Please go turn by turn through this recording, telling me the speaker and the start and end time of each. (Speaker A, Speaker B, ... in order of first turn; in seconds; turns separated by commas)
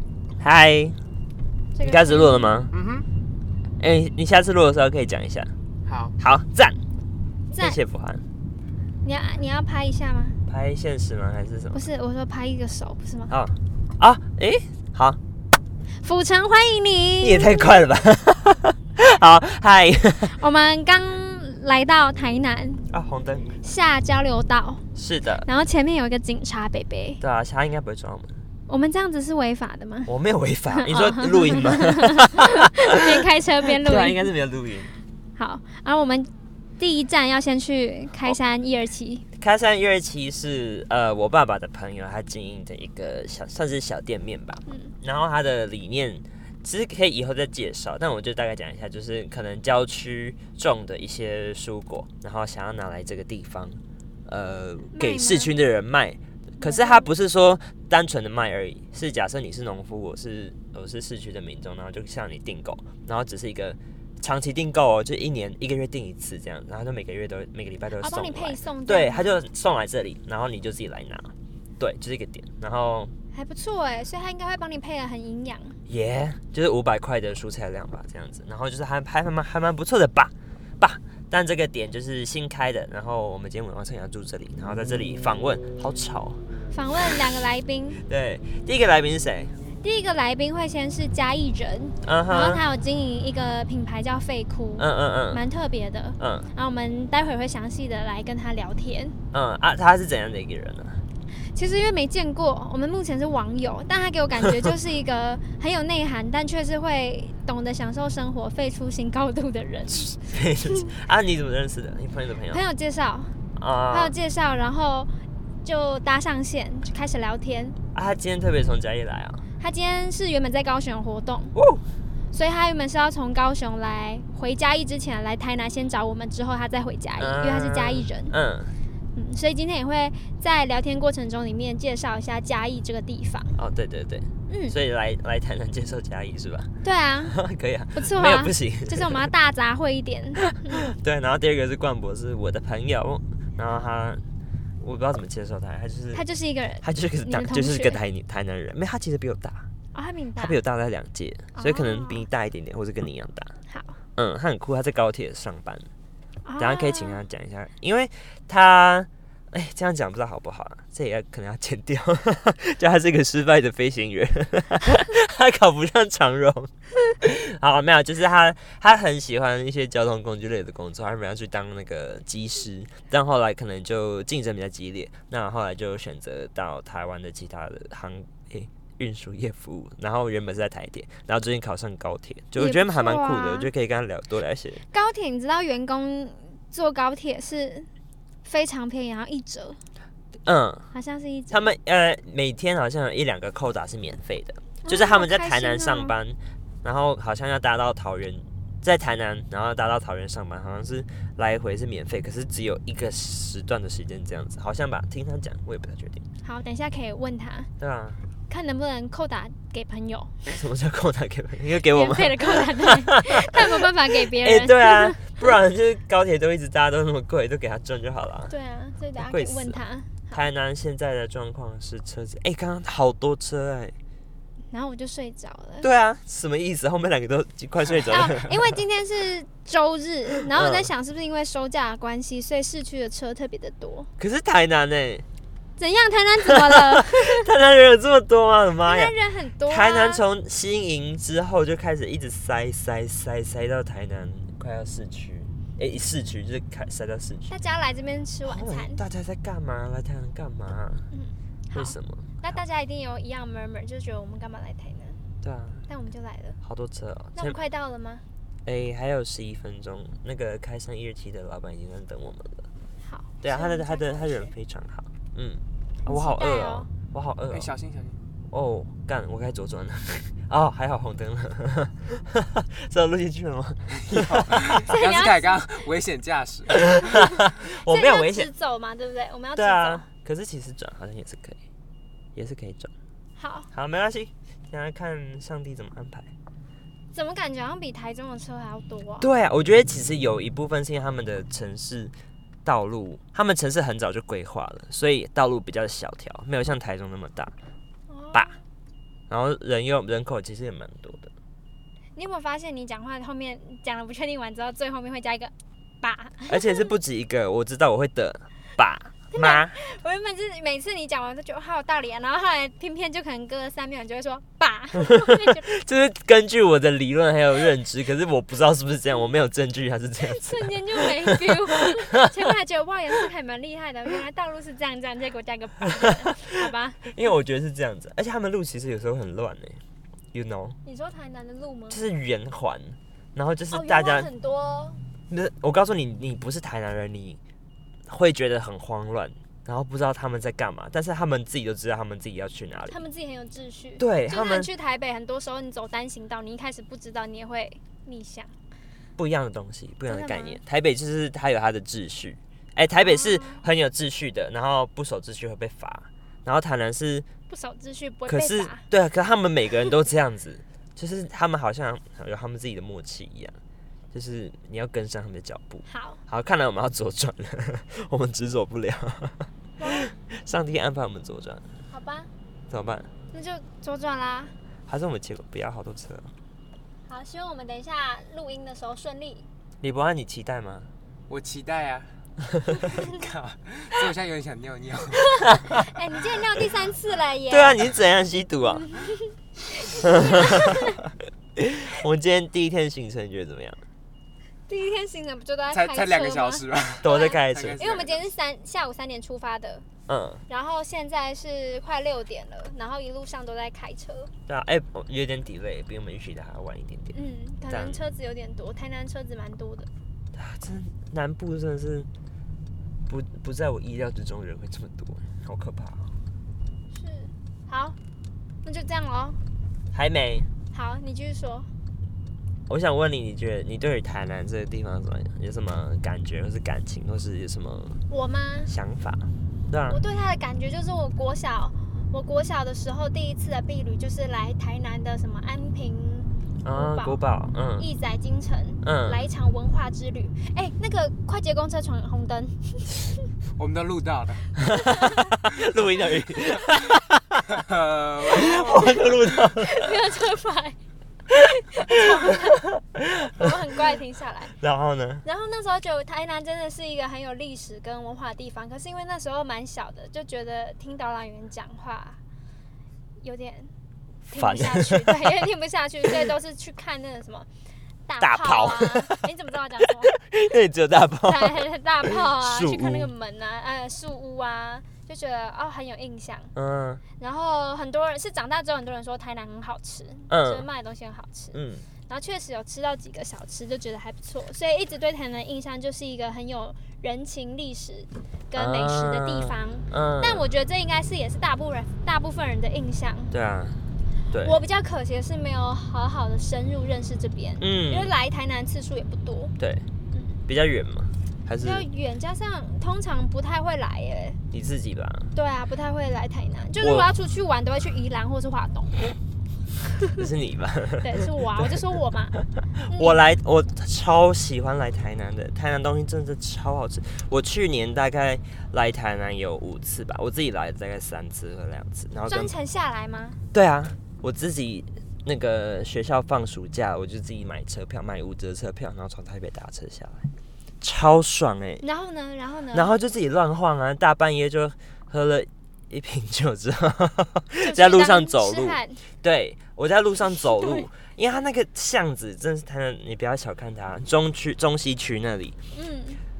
Speaker A: 0.4-0.9, Speaker B: 1.7-2.6, Speaker A: 1.8-2.7, Speaker C: 2.7-3.0, Speaker A: 3.8-5.5, Speaker C: 5.8-6.1, Speaker A: 6.2-6.8, Speaker B: 7.5-7.8, Speaker A: 7.6-8.2, Speaker B: 9.0-10.4, Speaker A: 10.5-11.8, Speaker B: 11.7-13.3, Speaker A: 13.3-15.2, Speaker B: 16.0-17.8, Speaker A: 17.2-20.4, Speaker B: 20.3-22.8, Speaker A: 22.9-23.6, Speaker B: 23.6-24.8, Speaker A: 24.9-25.5, Speaker B: 25.4-27.2, Speaker A: 27.2-28.3, Speaker B: 28.7-30.1, Speaker A: 30.1-33.0, Speaker B: 30.7-34.3, Speaker A: 33.6-34.9, Speaker B: 35.4-39.2, Speaker A: 39.4-73.1, Speaker B: 44.7-44.9, Speaker B: 54.9-55.5, Speaker B: 56.6-57.1, Speaker B: 68.0-69.4, Speaker B: 73.3-75.8, Speaker A: 75.9-86.4, Speaker B: 86.7-88.0, Speaker A: 88.1-89.5, Speaker B: 89.8-99.2, Speaker A: 92.0-92.6, Speaker A: 94.8-95.4, Speaker A: 96.2-96.5, Speaker A: 99.3-101.0, Speaker B: 101.4-110.1, Speaker A: 109.9-112.6, Speaker B: 112.5-113.3, Speaker A: 113.5-114.1, Speaker B: 113.9-115.1, Speaker B: 115.6-117.8, Speaker A: 117.9-119.4, Speaker B: 119.6-121.5, Speaker A: 121.5-121.8, Speaker B: 122.3-128.3, Speaker A: 127.2-128.7, Speaker B: 129.1-133.6, Speaker A: 133.6-136.7, Speaker B: 134.5-134.8, Speaker B: 136.8-137.4, Speaker A: 137.2-139.3, Speaker B: 137.9-140.9, Speaker A: 140.6-144.2, Speaker A: 144.8-146.2, Speaker B: 146.1-148.0, Speaker A: 146.8-149.7, Speaker B: 149.9-150.6, Speaker A: 150.3-153.6, Speaker B: 151.5-152.3, Speaker B: 153.7-154.0, Speaker A: 154.2-155.9, Speaker B: 156.4-157.2, Speaker A: 156.6-184.8, Speaker B: 182.6-183.7, Speaker B: 184.9-187.9, Speaker B: 188.4-189.8, Speaker A: 190.4-190.9, Speaker B: 190.9-191.7, Speaker A: 191.5-206.2, Speaker B: 194.8-196.1, Speaker B: 206.4-207.7, Speaker A: 207.8-208.2, Speaker B: 208.5-210.5, Speaker A: 210.4-218.5, Speaker B: 211.8-215.5, Speaker B: 218.5-220.5, Speaker A: 219.2-219.8, Speaker A: 220.3-223.9, Speaker B: 224.7-225.9, Speaker A: 225.8-228.7, Speaker B: 228.0-234.1, Speaker A: 230.5-230.9, Speaker A: 234.2-235.2, Speaker B: 235.8-237.5, Speaker A: 236.4-239.1, Speaker B: 238.8-240.2, Speaker A: 239.7-247.5, Speaker B: 247.5-249.0, Speaker A: 248.4-251.1, Speaker B: 251.1-255.2, Speaker A: 251.7-252.4, Speaker A: 255.4-255.8, Speaker B: 255.9-256.6, Speaker A: 256.6-257.6, Speaker B: 257.4-258.2, Speaker A: 258.6-262.7, Speaker B: 263.0-264.5, Speaker A: 263.4-267.7, Speaker B: 266.1-266.9, Speaker C: 267.5-268.2, Speaker A: 268.5-274.9, Speaker C: 274.1-277.1, Speaker B: 274.8-275.8, Speaker A: 276.8-278.5, Speaker B: 277.6-280.1, Speaker A: 279.6-281.6, Speaker A: 282.4-282.9, Speaker B: 283.4-283.7, Speaker A: 283.7-286.3, Speaker B: 287.1-289.3, Speaker A: 289.2-292.1, Speaker A: 292.6-297.5, Speaker B: 298.1-298.6, Speaker A: 299.3-301.3, Speaker B: 302.1-306.9, Speaker A: 306.5-309.8, Speaker B: 309.3-315.7, Speaker A: 315.4-321.6, Speaker B: 320.2-327.1, Speaker A: 327.1-329.8, Speaker A: 330.3-330.8, Speaker B: 330.8-332.0, Speaker A: 331.9-334.3, Speaker B: 333.7-335.0, Speaker A: 335.3-337.4, Speaker A: 338.1-343.0, Speaker B: 342.9-348.5, Speaker A: 344.0-344.7, Speaker A: 349.2-357.3, Speaker B: 350.1-350.6, Speaker B: 353.0-353.6, Speaker B: 357.5-358.9, Speaker A: 358.3-363.6, Speaker A: 364.1-371.6, Speaker B: 365.9-366.2, Speaker B: 369.8-370.1, Speaker B: 371.9-372.3, Speaker A: 372.7-373.1, Speaker B: 373.3-374.5, Speaker A: 374.9-376.3, Speaker B: 377.1-379.4, Speaker A: 379.8-380.9, Speaker C: 381.3-382.1, Speaker A: 382.5-382.8, Speaker C: 382.9-385.3, Speaker B: 385.1-387.8, Speaker A: 387.5-388.9, Speaker B: 388.8-391.0, Speaker A: 389.9-390.9, Speaker A: 391.6-393.8, Speaker B: 394.7-399.8, Speaker C: 395.7-398.2, Speaker A: 397.0-397.8, Speaker A: 400.1-400.4, Speaker B: 400.5-404.3, Speaker A: 404.5-407.1, Speaker B: 407.1-409.9, Speaker A: 407.7-408.0, Speaker A: 410.3-412.1, Speaker A: 413.1-416.1, Speaker B: 416.9-417.9, Speaker B: 418.6-419.4, Speaker A: 419.9-420.5, Speaker B: 420.7-421.7, Speaker A: 422.7-428.0, Speaker B: 428.1-428.7, Speaker A: 428.7-430.0, Speaker B: 429.9-437.2, Speaker A: 436.6-437.9, Speaker B: 437.8-443.2, Speaker A: 438.8-439.2, Speaker C: 443.6-444.5, Speaker A: 444.6-447.5, Speaker B: 444.8-445.3, Speaker C: 447.5-448.9, Speaker A: 448.3-449.9, Speaker B: 448.3-450.8, Speaker B: 451.3-452.6, Speaker A: 451.9-453.5, Speaker B: 453.2-454.5, Speaker A: 454.6-455.2, Speaker B: 455.2-462.2, Speaker B: 463.2-463.7, Speaker B: 464.3-467.5, Speaker A: 464.3-465.4, Speaker B: 468.1-470.1, Speaker A: 468.2-469.3, Speaker A: 469.9-473.1, Speaker B: 471.2-476.5, Speaker A: 476.5-477.0, Speaker B: 477.2-493.3, Speaker A: 480.3-480.6, Speaker A: 481.5-481.9, Speaker A: 488.5-490.4, Speaker A: 493.3-494.6, Speaker B: 494.4-499.5, Speaker A: 497.6-498.1, Speaker A: 499.6-499.9, Speaker A: 500.5-501.9, Speaker B: 501.6-504.4, Speaker A: 504.5-505.3, Speaker B: 505.3-509.1, Speaker A: 506.8-507.1, Speaker A: 510.1-511.8, Speaker B: 511.0-512.4, Speaker B: 512.9-513.2, Speaker A: 512.9-522.5, Speaker B: 522.3-523.4, Speaker A: 523.5-530.3, Speaker A: 530.8-531.8, Speaker B: 531.8-532.9, Speaker A: 532.7-545.5, Speaker B: 537.6-539.0, Speaker B: 540.3-540.9, Speaker B: 545.7-546.2